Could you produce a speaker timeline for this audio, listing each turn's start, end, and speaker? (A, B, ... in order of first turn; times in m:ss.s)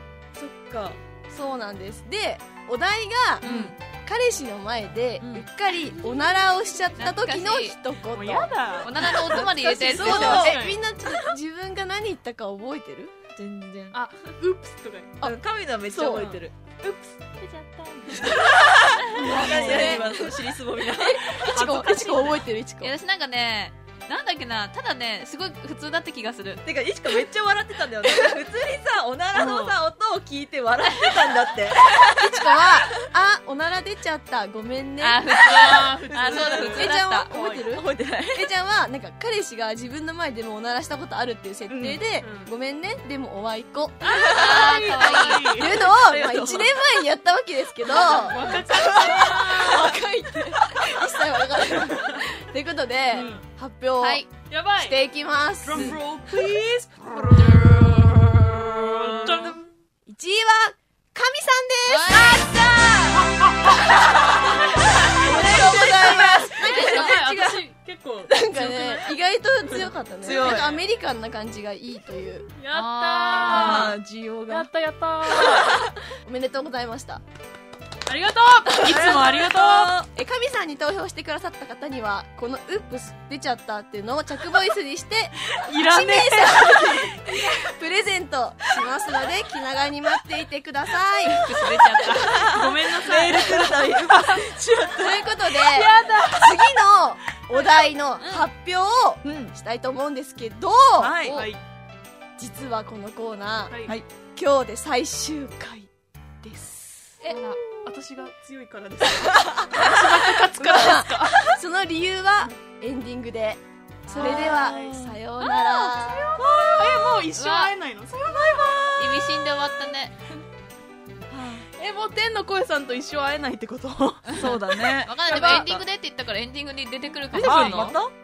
0:00.4-0:01.0 A
0:01.3-0:13.1 B
0:03.4-0:03.7 C
0:03.4-0:03.7 A
0:03.4-0:03.7 D
0:07.0-0:07.8 D
0:08.1-0:10.8 C
0:08.8-0:10.6 D
0:09.8-0:10.6 A
0:13.4-0:14.0 A
0:13.9-0:15.3 C
0:15.2-0:22.2 A
0:15.9-0:16.3 B
0:16.0-0:16.4 C
0:19.1-0:20.2 C
0:19.2-0:20.3 B
0:21.0-0:22.9 B
0:21.5-0:22.4 C
0:22.8-0:26.6 D
0:26.6-0:32.8 A
0:29.3-0:29.8 C
0:31.0-0:31.3 D
0:32.1-0:35.6 B
0:35.0-0:37.3 D
0:35.4-0:37.6 C
0:35.7-0:36.8 A
0:36.2-0:44.3 B
0:37.7-0:38.5 A
0:41.7-0:42.0 A
0:42.2-0:42.5 C
0:44.0-0:45.8 C
0:44.0-0:44.7 A
0:44.3-0:45.6 D
0:45.4-0:56.0 B
0:45.6-0:46.8 A
0:47.9-0:50.0 C
0:47.9-0:50.1 A
0:53.1-0:53.4 C
0:54.0-0:54.3 D
0:54.5-0:55.0 C
0:55.6-0:59.6 C
0:58.6-0:59.6 A
1:00.0-1:03.3 B
1:01.8-1:02.5 D
1:03.3-1:09.2 C
1:04.1-1:07.2 B
1:04.7-1:07.6 A
1:06.7-1:07.2 D
1:08.3-1:12.5 B
1:09.7-1:10.6 C
1:10.2-1:10.8 A
1:12.6-1:14.0 C
1:12.7-1:14.0 D
1:13.4-1:14.7 A
1:14.5-1:15.8 C
1:15.5-1:15.8 A
1:16.2-1:17.2 B
1:18.0-1:19.9 C
1:18.7-1:20.1 A
1:20.1-1:31.5 B
1:25.5-1:27.1 C
1:31.3-1:32.5 D
1:32.0-1:35.3 A
1:32.4-1:34.6 C
1:34.9-1:41.2 B
1:35.5-1:36.7 C
1:38.2-1:38.5 D
1:39.2-1:39.5 A
1:41.0-1:41.6 C
1:41.2-1:41.5 D
1:42.4-1:43.8 B
1:43.7-1:44.0 C
1:44.3-1:45.9 B
1:46.4-1:47.4 B
1:47.2-1:47.6 D
1:47.2-1:51.6 C
1:50.5-1:56.3 B
1:54.0-1:55.0 C
1:54.1-1:55.2 A
1:55.4-1:55.9 D
1:56.1-1:59.0 C
1:56.4-1:57.2 A
1:57.3-1:57.7 D
1:58.3-1:59.2 A
1:59.0-2:00.2 D
2:01.3-2:01.6 A
2:01.8-2:05.8 C
2:04.3-2:07.9 D
2:04.4-2:05.8 A
2:07.3-2:08.0 C
2:07.4-2:08.1 A